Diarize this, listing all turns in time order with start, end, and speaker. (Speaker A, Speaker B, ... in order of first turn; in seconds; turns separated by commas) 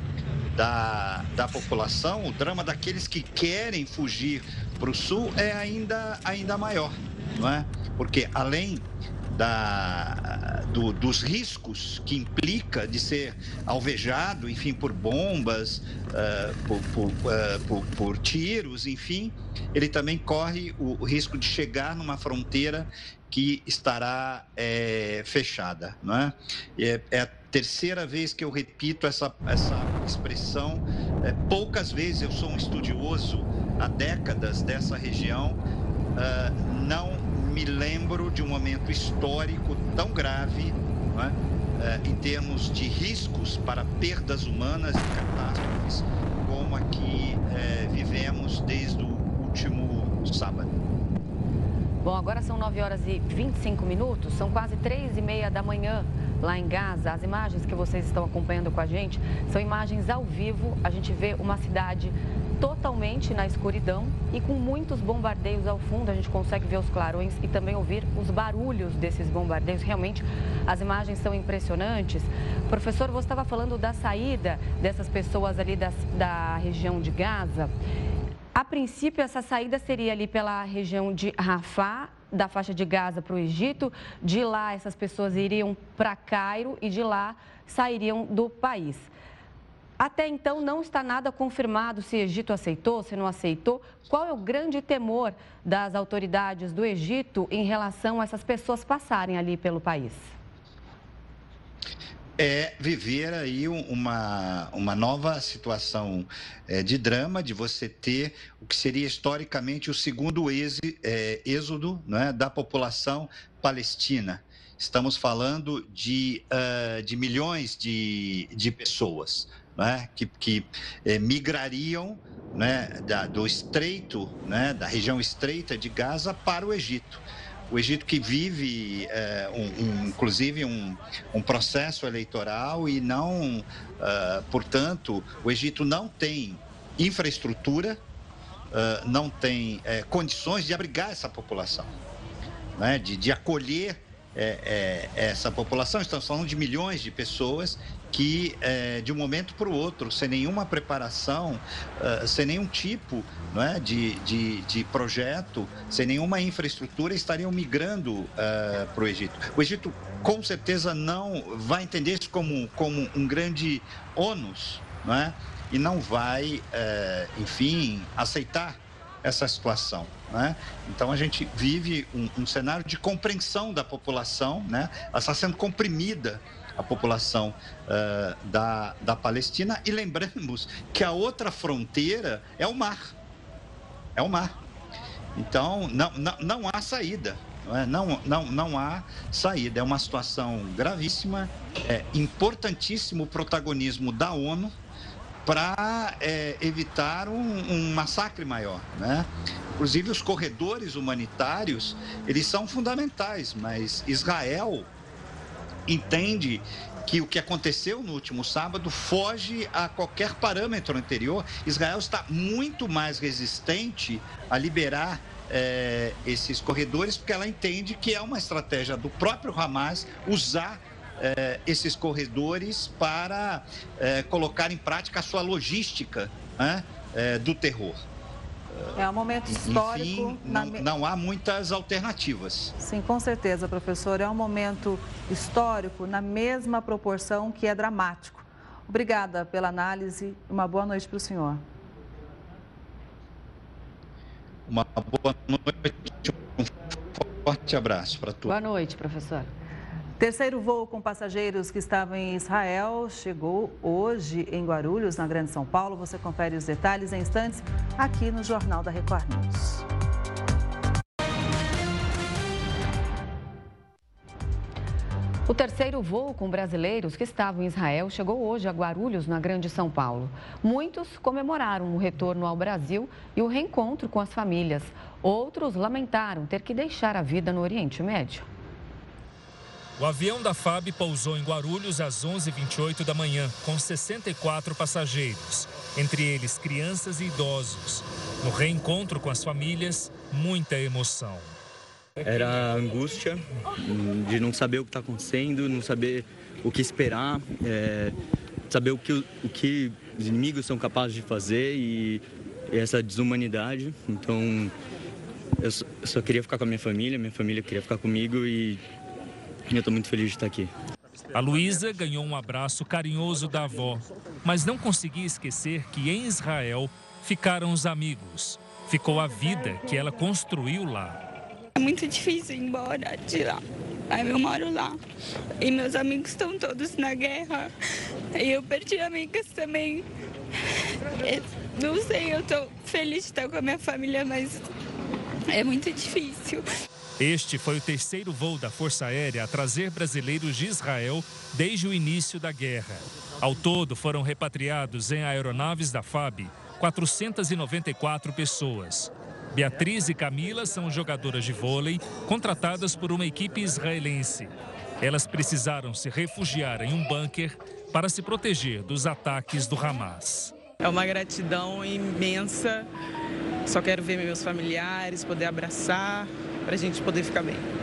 Speaker A: 0.5-35.6, Speaker A: 36.1-50.8, Speaker B: 52.0-77.7, Speaker B: 78.5-89.1, Speaker B: 90.0-100.3, Speaker A: 102.4-138.0, Speaker A: 138.7-141.9, Speaker A: 142.8-183.1, Speaker A: 184.2-184.5, Speaker A: 185.3-194.7, Speaker A: 195.4-204.9, Speaker A: 205.9-228.0, Speaker A: 228.7-232.7, Speaker C: 228.9-230.8, Speaker C: 232.8-241.6, Speaker A: 244.7-248.5, Speaker B: 248.5-249.5, Speaker C: 250.2-259.8, Speaker B: 265.5-278.5, Speaker D: 280.0-291.5, Speaker E: 292.2-298.1, Speaker E: 298.7-304.7, Speaker E: 305.6-308.8, Speaker E: 309.7-310.7, Speaker D: 311.3-321.2, Speaker F: 321.8-325.0, Speaker F: 325.6-327.7, Speaker F: 328.3-330.1, Speaker F: 331.1-334.7, Speaker F: 335.5-336.6, Speaker D: 337.2-360.6, Speaker G: 360.8-362.9, Speaker G: 363.7-367.6